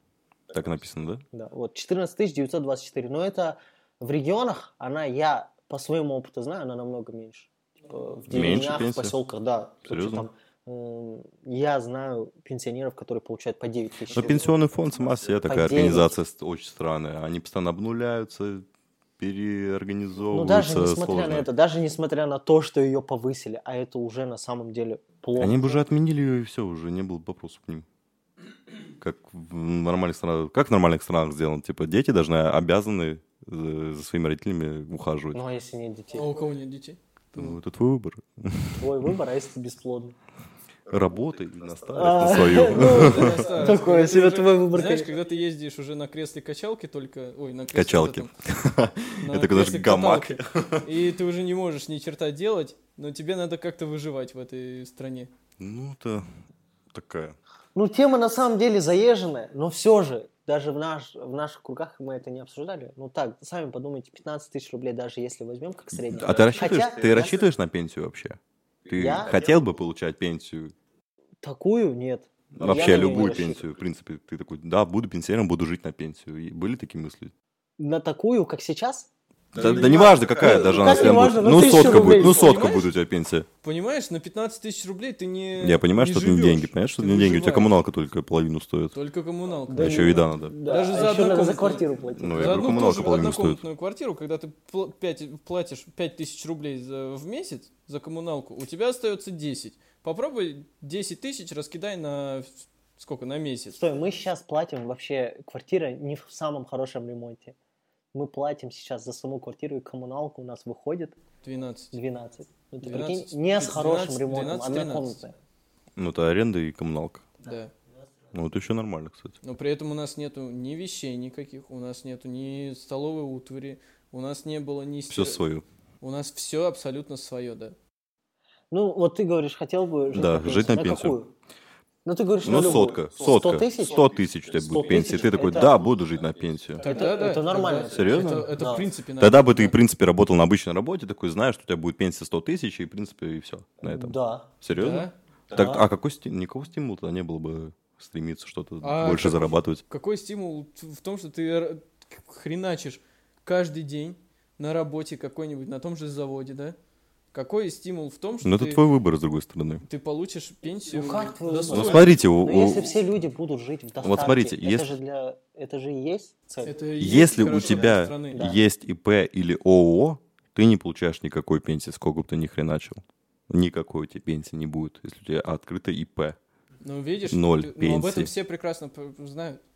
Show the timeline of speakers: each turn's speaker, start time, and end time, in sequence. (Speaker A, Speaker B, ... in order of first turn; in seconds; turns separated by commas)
Speaker A: 0.5-1.2, Speaker B: 1.3-14.5, Speaker A: 8.3-9.1, Speaker A: 9.8-10.3, Speaker A: 14.1-18.6, Speaker B: 15.4-16.1, Speaker A: 19.2-21.5, Speaker B: 20.3-25.8, Speaker A: 25.4-27.8, Speaker A: 29.0-35.4, Speaker B: 35.3-36.3, Speaker C: 36.1-37.6, Speaker A: 37.3-39.1, Speaker B: 38.8-40.1, Speaker A: 40.9-43.5, Speaker B: 41.9-45.1, Speaker C: 42.7-48.3, Speaker A: 47.7-50.9, Speaker C: 49.2-55.3, Speaker A: 55.6-56.2, Speaker A: 56.9-57.4, Speaker B: 57.7-67.3, Speaker A: 66.0-70.7, Speaker B: 68.9-69.3, Speaker B: 71.4-73.6, Speaker A: 72.5-77.3, Speaker B: 77.8-82.8, Speaker A: 79.5-83.5, Speaker C: 81.5-82.9, Speaker C: 83.6-87.7, Speaker A: 85.6-88.9, Speaker C: 88.9-103.8, Speaker B: 89.7-92.6, Speaker A: 89.7-90.5, Speaker A: 92.1-93.6, Speaker B: 103.8-107.5, Speaker B: 108.1-111.2, Speaker C: 111.4-111.9, Speaker B: 111.9-115.3, Speaker C: 112.8-115.2, Speaker A: 116.0-117.3, Speaker C: 117.4-117.7, Speaker A: 118.3-119.3, Speaker C: 119.4-125.4, Speaker A: 125.1-125.6, Speaker C: 126.0-127.8, Speaker B: 128.7-131.3, Speaker A: 130.1-131.2, Speaker B: 132.0-135.8, Speaker A: 132.4-136.8, Speaker C: 136.8-139.8, Speaker B: 136.8-138.9, Speaker A: 137.9-138.7, Speaker A: 139.2-149.8, Speaker B: 143.8-144.5, Speaker C: 144.7-145.1, Speaker B: 145.5-145.8, Speaker C: 148.8-156.8, Speaker C: 157.3-158.8, Speaker A: 158.4-159.8, Speaker C: 159.8-162.1, Speaker B: 160.9-166.8, Speaker A: 161.7-162.9, Speaker A: 164.0-164.9, Speaker C: 166.6-168.4, Speaker A: 167.0-176.4, Speaker B: 168.3-168.6, Speaker C: 176.8-179.6, Speaker A: 177.2-178.3